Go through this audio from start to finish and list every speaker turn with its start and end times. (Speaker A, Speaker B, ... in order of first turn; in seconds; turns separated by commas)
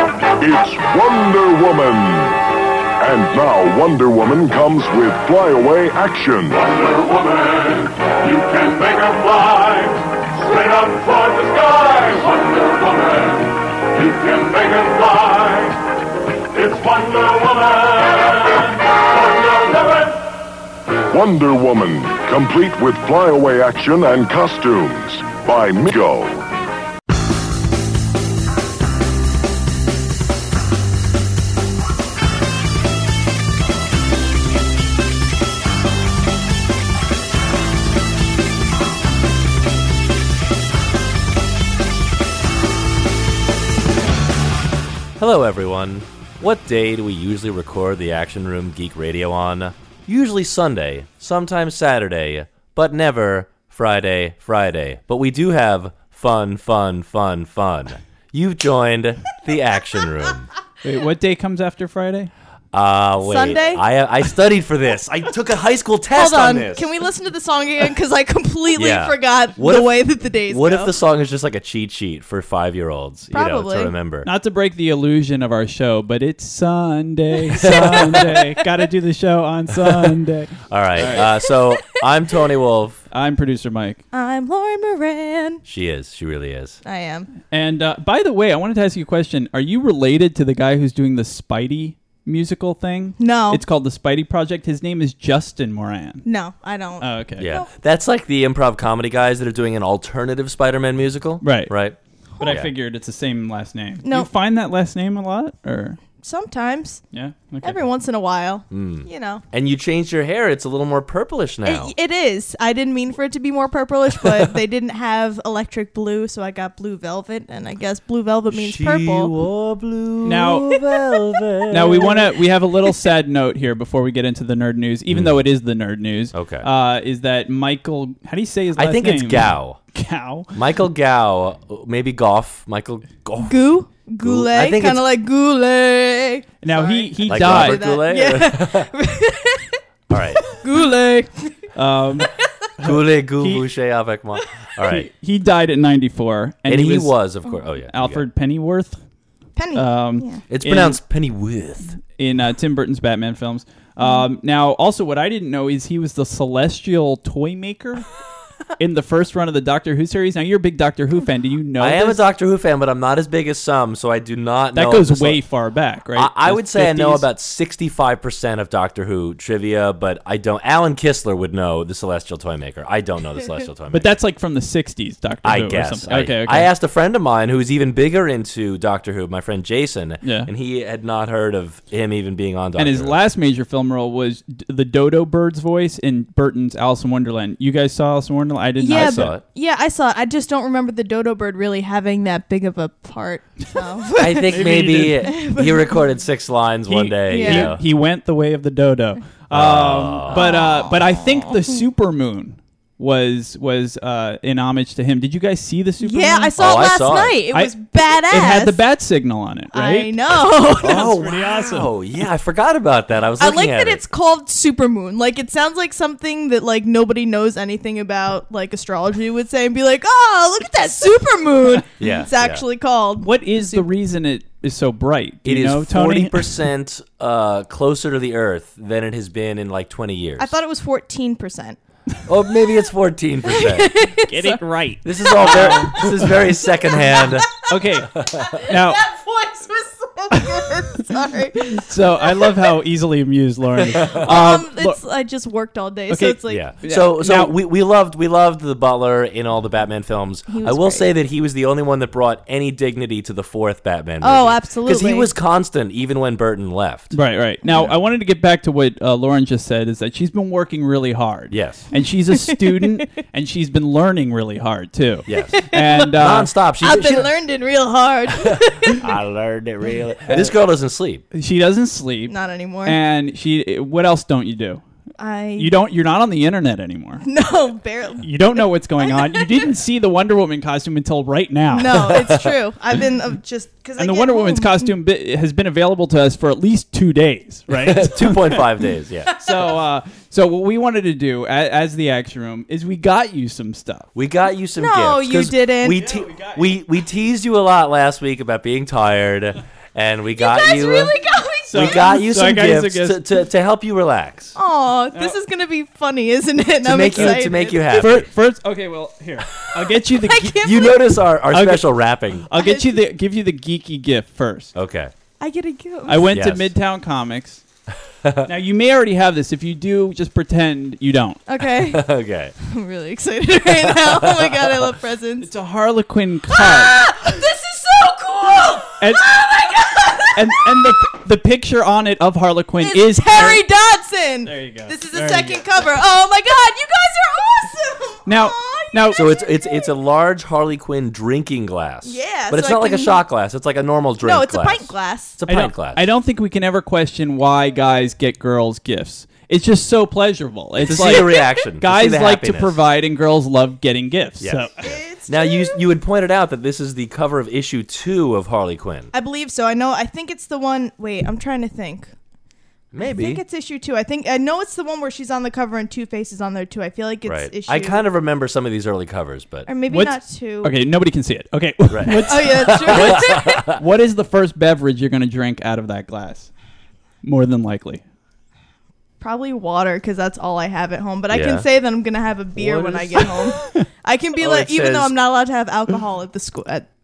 Speaker A: 0.4-2.5, Speaker A: 3.0-6.6, Speaker B: 6.6-15.8, Speaker B: 16.5-20.2, Speaker A: 21.1-26.4, Speaker C: 45.2-60.5, Speaker D: 60.8-62.3, Speaker C: 62.7-66.8, Speaker E: 63.2-63.8, Speaker E: 66.1-70.9, Speaker C: 68.8-69.9, Speaker C: 70.5-74.3, Speaker E: 73.3-73.9, Speaker D: 74.2-81.2, Speaker C: 77.5-78.2, Speaker C: 79.8-80.1, Speaker C: 80.7-83.0, Speaker D: 83.1-84.0, Speaker E: 84.1-85.6, Speaker C: 85.7-86.8, Speaker E: 86.8-87.3, Speaker D: 87.5-96.2, Speaker E: 93.2-93.6, Speaker E: 96.2-97.7, Speaker D: 97.0-97.5, Speaker C: 97.4-102.7, Speaker D: 101.4-101.7, Speaker D: 102.4-106.0, Speaker E: 104.0-104.3, Speaker E: 106.2-107.0, Speaker D: 107.1-107.8, Speaker E: 107.6-109.4, Speaker C: 108.7-111.9, Speaker E: 111.6-119.3, Speaker C: 118.5-122.2, Speaker D: 120.2-120.7, Speaker D: 121.7-130.5, Speaker C: 125.1-125.4, Speaker C: 126.3-126.7, Speaker C: 128.8-129.8, Speaker C: 130.5-133.5, Speaker E: 133.4-139.8, Speaker C: 134.2-135.0, Speaker D: 136.6-137.8, Speaker C: 137.3-138.9, Speaker C: 140.1-140.4, Speaker E: 140.4-141.6, Speaker D: 141.7-143.6, Speaker E: 142.2-142.4, Speaker C: 142.8-145.1, Speaker D: 144.8-147.1, Speaker C: 146.7-148.2, Speaker D: 147.9-149.0, Speaker E: 149.6-150.4, Speaker D: 149.7-151.0, Speaker C: 150.5-152.0, Speaker D: 152.1-158.1, Speaker E: 154.0-154.2, Speaker D: 158.8-162.2, Speaker C: 161.8-165.4, Speaker D: 164.7-167.3, Speaker C: 166.1-174.2, Speaker D: 173.9-176.7, Speaker C: 175.4-183.2, Speaker D: 180.2-180.5, Speaker D: 182.8-189.3, Speaker E: 188.8-196.0, Speaker C: 188.9-189.4, Speaker C: 194.2-197.8, Speaker D: 194.5-195.3, Speaker D: 196.9-206.5, Speaker E: 197.3-197.7, Speaker C: 199.5-200.5, Speaker E: 200.3-201.8, Speaker E: 206.0-208.8, Speaker C: 206.6-207.4, Speaker D: 207.5-210.1, Speaker E: 209.7-211.1, Speaker C: 210.8-214.0, Speaker D: 210.8-211.9, Speaker E: 213.4-223.8, Speaker C: 222.0-222.6, Speaker D: 223.2-226.5, Speaker C: 225.4-230.5, Speaker E: 230.4-231.8, Speaker C: 232.3-233.9, Speaker E: 233.5-234.6, Speaker D: 234.3-236.0, Speaker C: 235.0-237.5, Speaker E: 235.2-237.7, Speaker D: 237.7-239.0, Speaker C: 238.1-238.6, Speaker E: 238.4-242.6, Speaker D: 241.7-245.0, Speaker C: 243.9-244.4, Speaker E: 244.0-246.7, Speaker D: 246.1-247.5, Speaker C: 246.5-257.1, Speaker E: 250.5-251.1, Speaker E: 254.2-255.3, Speaker D: 257.1-266.5, Speaker C: 261.5-261.8, Speaker E: 262.4-262.9, Speaker C: 265.3-267.3, Speaker E: 265.5-266.1, Speaker E: 266.8-269.1, Speaker C: 268.4-271.2, Speaker D: 270.3-270.5, Speaker D: 271.3-272.3, Speaker E: 272.3-273.0, Speaker D: 272.8-274.8, Speaker E: 275.2-275.7, Speaker D: 275.6-277.2, Speaker E: 277.2-279.7, Speaker D: 278.2-282.1, Speaker E: 281.7-284.9, Speaker C: 282.1-282.5, Speaker D: 284.0-288.6, Speaker C: 287.8-289.3, Speaker E: 289.3-289.6, Speaker D: 289.4-294.1, Speaker C: 294.1-301.2, Speaker E: 294.8-296.0, Speaker D: 295.9-296.6, Speaker E: 300.4-302.0, Speaker D: 301.6-303.2, Speaker C: 301.7-304.6, Speaker E: 304.6-308.1, Speaker C: 306.8-308.3, Speaker D: 307.1-310.6, Speaker E: 310.0-311.2, Speaker C: 310.6-312.5, Speaker D: 311.5-314.7, Speaker E: 312.5-313.0, Speaker C: 314.7-315.1, Speaker E: 315.4-316.3, Speaker D: 316.1-317.6, Speaker C: 316.3-316.7, Speaker C: 318.2-318.5, Speaker D: 318.4-321.4, Speaker E: 321.5-325.5, Speaker C: 321.8-322.5, Speaker C: 323.9-324.8, Speaker D: 325.4-327.0, Speaker E: 326.5-330.9, Speaker D: 329.0-329.3, Speaker D: 330.3-333.6, Speaker E: 332.8-339.9, Speaker D: 334.4-335.6, Speaker D: 338.2-339.2, Speaker C: 339.1-346.0, Speaker E: 342.0-343.2, Speaker E: 344.2-345.4, Speaker D: 345.5-354.8, Speaker C: 350.8-352.8, Speaker C: 354.4-359.1, Speaker E: 354.8-355.8, Speaker E: 359.1-362.1, Speaker C: 362.9-363.4, Speaker E: 363.0-368.0, Speaker C: 367.3-369.7, Speaker E: 369.6-370.8, Speaker D: 369.9-376.5, Speaker C: 371.9-373.8, Speaker E: 372.2-373.6, Speaker D: 377.2-378.0, Speaker E: 379.2-386.9, Speaker C: 381.3-381.6, Speaker C: 382.6-383.2, Speaker C: 384.4-385.1